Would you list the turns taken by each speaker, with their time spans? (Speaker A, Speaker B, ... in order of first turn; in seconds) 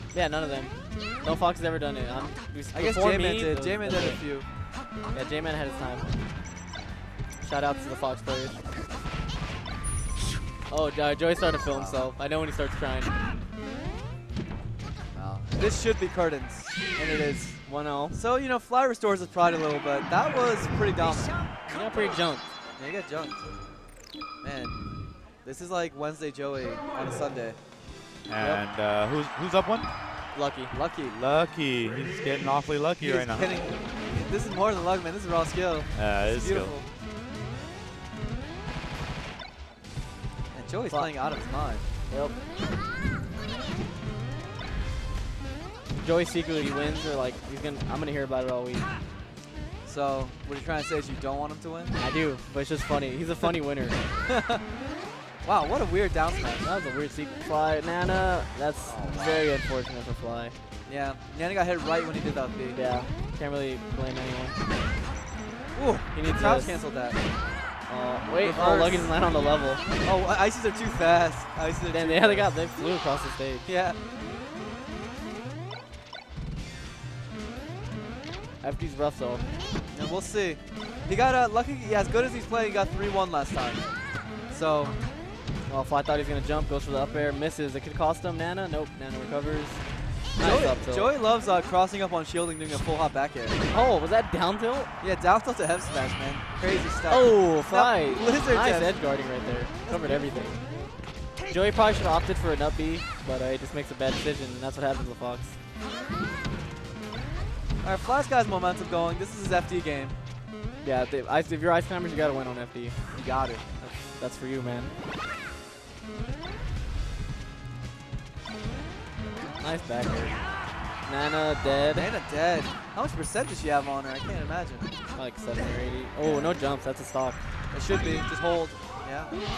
Speaker A: 0.1-4.2, 5.1-6.1, 7.4-8.6, 10.7-13.2, 17.6-18.2, 21.7-22.5, 30.3-30.8, 42.1-42.4, 46.0-48.9, 52.0-54.0, 56.6-60.5, 62.7-64.6, 66.1-66.8, 67.9-69.8, 71.9-73.7, 78.6-79.5, 85.7-89.8, 90.3-91.1, 93.7-94.9, 97.1-100.6, 101.5-105.5, 110.8-113.2, 113.8-114.9, 119.6-120.4, 121.0-122.1, 125.1-127.4
Speaker B: 2.7-4.5, 11.7-12.0, 15.1-21.4, 22.8-23.5, 24.4-27.6, 30.7-31.2, 33.0-36.9, 40.5-41.8, 49.8-52.0, 54.3-54.6, 55.4-56.7, 58.8-59.5, 60.9-62.8, 65.7-67.2, 68.4-69.1, 70.0-72.5, 73.6-74.0, 79.9-83.8, 84.5-85.0, 90.4-93.6, 95.0-99.0, 99.8-100.9, 107.8-110.2, 113.1-113.6, 121.9-124.9, 126.2-126.6, 127.7-129.4
Speaker C: 28.3-29.9, 31.1-33.6, 35.9-36.8